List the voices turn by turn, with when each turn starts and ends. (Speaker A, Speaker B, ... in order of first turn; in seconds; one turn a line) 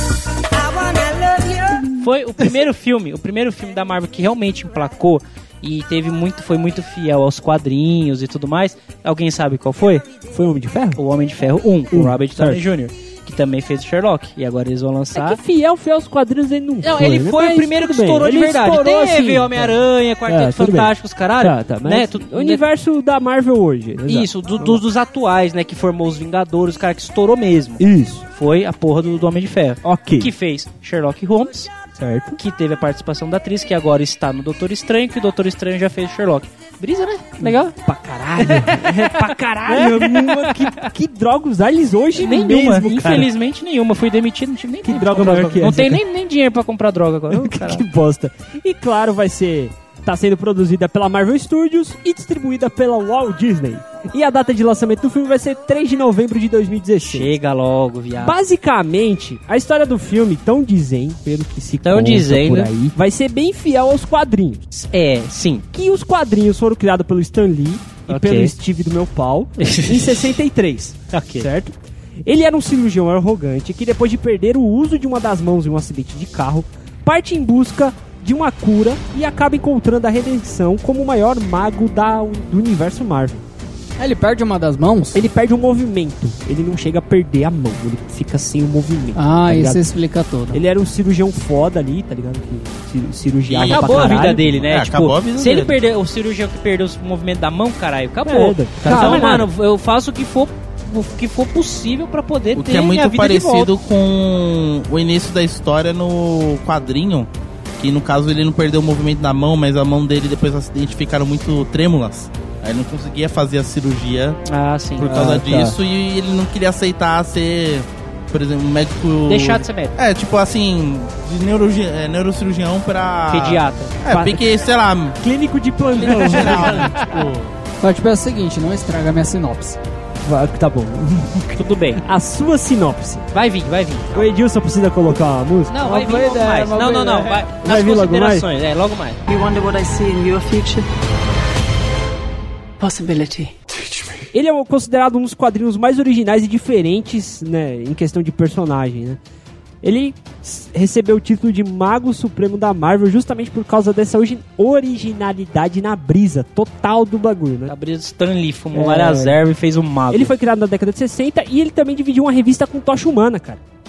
Speaker A: 1.9-10.1
Speaker B: 10.3-11.0
Speaker A: 11.0-15.4
Speaker B: 11.9-12.6
Speaker B: 15.2-24.8
Speaker A: 16.8-22.6
Speaker A: 24.1-27.8
Speaker B: 27.8-28.3
Speaker A: 28.3-31.7
Speaker B: 29.8-30.3
Speaker B: 32.0-32.4
Speaker A: 32.4-37.7
Speaker B: 37.4-43.3
Speaker A: 38.4-40.9
Speaker A: 42.2-47.8
Speaker B: 44.9-46.0
Speaker B: 47.3-57.3
Speaker A: 57.0-58.4
Speaker B: 58.2-64.6
Speaker A: 61.8-62.7
Speaker A: 64.7-65.7
Speaker B: 65.7-71.7
Speaker A: 68.1-68.5
Speaker A: 69.6-70.3
Speaker A: 71.1-71.5
Speaker B: 72.3-83.4
Speaker C: 84.0-85.2
Speaker B: 85.1-89.8
Speaker C: 89.2-90.6
Speaker B: 90.5-94.5
Speaker D: 93.5-95.8
Speaker A: 93.6-103.7
Speaker B: 98.2-99.5
Speaker D: 102.5-114.4
Speaker A: 114.5-115.1
Speaker D: 115.0-125.2
Speaker B: 115.0-115.8
Speaker A: 119.3-120.0
Speaker A: 123.3-124.0
Speaker B: 124.1-124.5
Speaker B: 125.2-126.9
Speaker D: 126.0-127.5
Speaker A: 126.0-127.3
Speaker C: 127.8-129.8
Speaker B: 130.2-133.3
Speaker A: 131.6-132.0
Speaker A: 133.3-134.3
Speaker B: 134.1-135.7
Speaker A: 135.7-139.2
Speaker C: 135.8-137.4
Speaker B: 137.6-138.4
Speaker E: 139.3-140.9
Speaker E: 142.8-143.6
Speaker B: 144.3-149.2
Speaker B: 149.8-157.7
Speaker A: 157.7-160.3
Speaker B: 158.7-159.4
Speaker B: 160.1-163.6